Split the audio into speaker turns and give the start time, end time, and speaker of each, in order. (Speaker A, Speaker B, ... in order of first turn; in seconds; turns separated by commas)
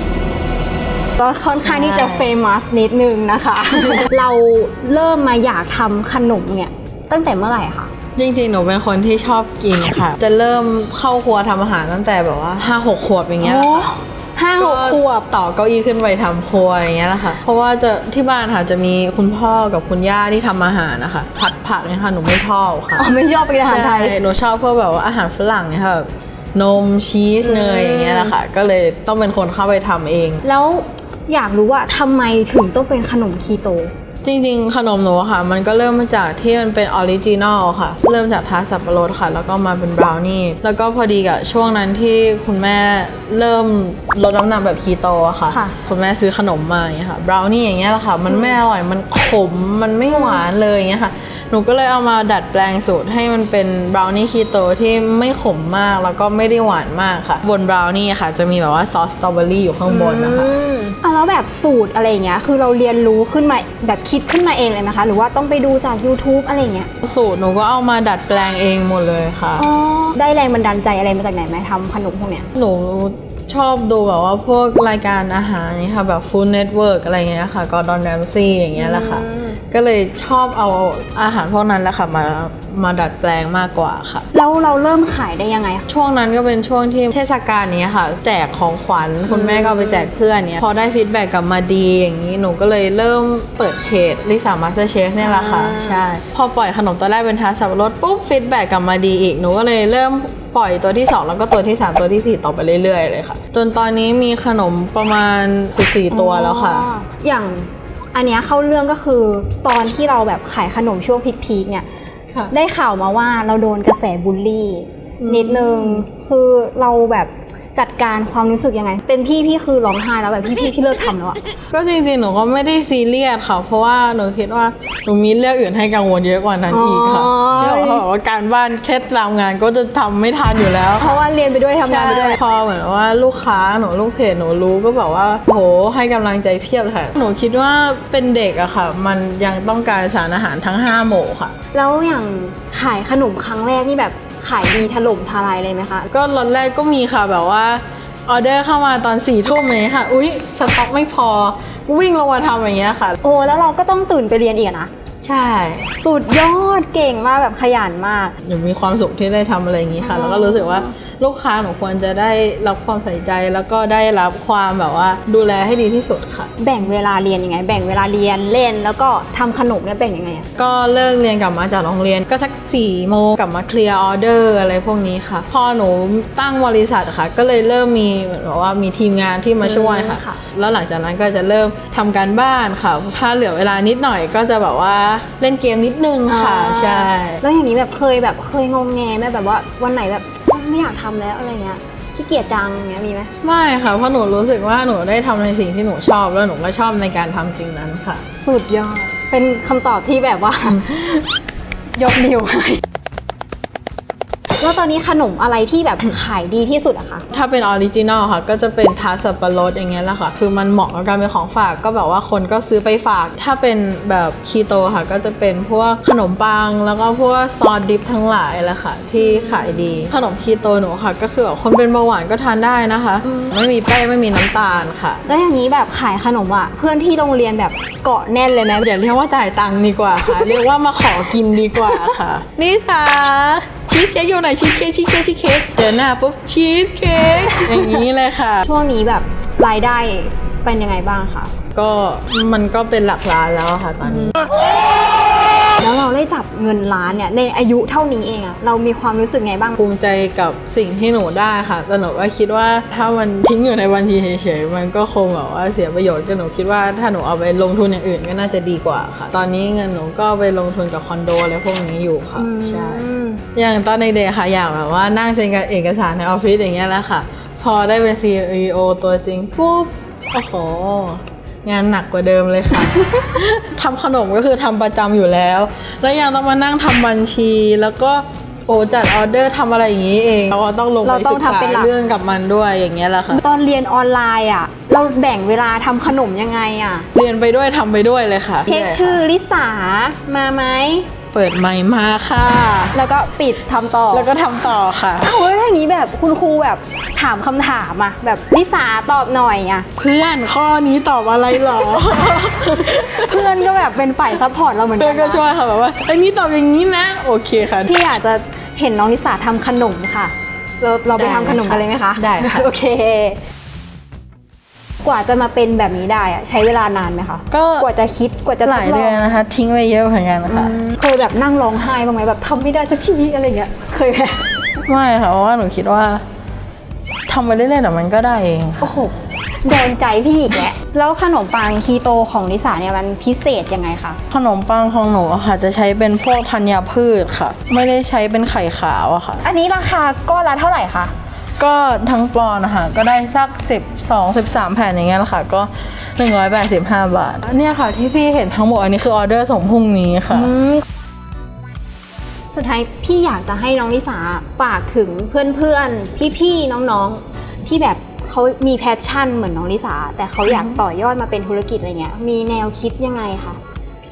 Speaker A: 1.2-7.9, Speaker B: 1.6-2.3, Speaker B: 8.2-13.9, Speaker A: 13.4-15.3, Speaker B: 14.6-23.1, Speaker A: 22.9-24.2, Speaker B: 23.6-30.4, Speaker A: 27.4-28.3, Speaker A: 30.4-33.9, Speaker B: 34.2-60.5, Speaker A: 45.5-45.7, Speaker A: 48.3-48.6, Speaker A: 50.1-50.4, Speaker A: 59.9-66.9, Speaker B: 67.0-69.7, Speaker A: 69.6-72.5, Speaker B: 72.5-84.2, Speaker A: 78.7-79.6, Speaker A: 84.3-85.8, Speaker B: 85.9-106.9, Speaker A: 89.3-90.1, Speaker A: 95.2-96.0, Speaker A: 106.1-111.8, Speaker A: 112.5-121.4, Speaker B: 115.2-116.0, Speaker B: 121.7-131.2, Speaker A: 126.7-128.0, Speaker A: 131.0-132.4, Speaker B: 131.8-141.5, Speaker A: 141.7-146.1, Speaker B: 146.1-153.2, Speaker A: 153.2-154.9, Speaker B: 155.2-155.9, Speaker A: 156.0-158.3, Speaker B: 158.4-166.5, Speaker A: 160.0-160.9, Speaker A: 166.6-170.5, Speaker B: 170.6-187.4, Speaker A: 179.6-180.4, Speaker A: 186.3-193.3, Speaker B: 193.4-198.2, Speaker A: 198.4-201.2, Speaker B: 200.7-201.2, Speaker A: 201.9-202.8, Speaker A: 204.6-207.3, Speaker B: 207.3-225.2, Speaker A: 219.2-220.1, Speaker A: 225.2-228.8, Speaker B: 228.8-238.7, Speaker A: 238.6-241.5, Speaker B: 241.7-244.4, Speaker A: 245.8-249.8, Speaker B: 249.8-283.4, Speaker A: 262.4-263.4, Speaker A: 281.0-281.9, Speaker A: 283.3-287.1, Speaker B: 287.1-289.2, Speaker A: 288.6-291.1, Speaker B: 291.3-292.9, Speaker A: 292.9-294.3, Speaker B: 294.1-295.3, Speaker A: 295.2-299.9, Speaker B: 300.0-303.6, Speaker A: 302.8-305.4, Speaker B: 305.0-307.9, Speaker A: 307.9-313.4, Speaker B: 311.1-312.7, Speaker A: 315.0-319.3, Speaker B: 317.5-317.9, Speaker B: 318.6-320.7, Speaker A: 320.5-324.4, Speaker B: 324.8-326.2, Speaker B: 327.3-329.0, Speaker A: 328.8-334.2, Speaker B: 334.3-339.4, Speaker A: 339.4-341.1, Speaker B: 341.6-350.5, Speaker A: 350.3-350.8, Speaker A: 352.5-363.6, Speaker B: 360.5-360.8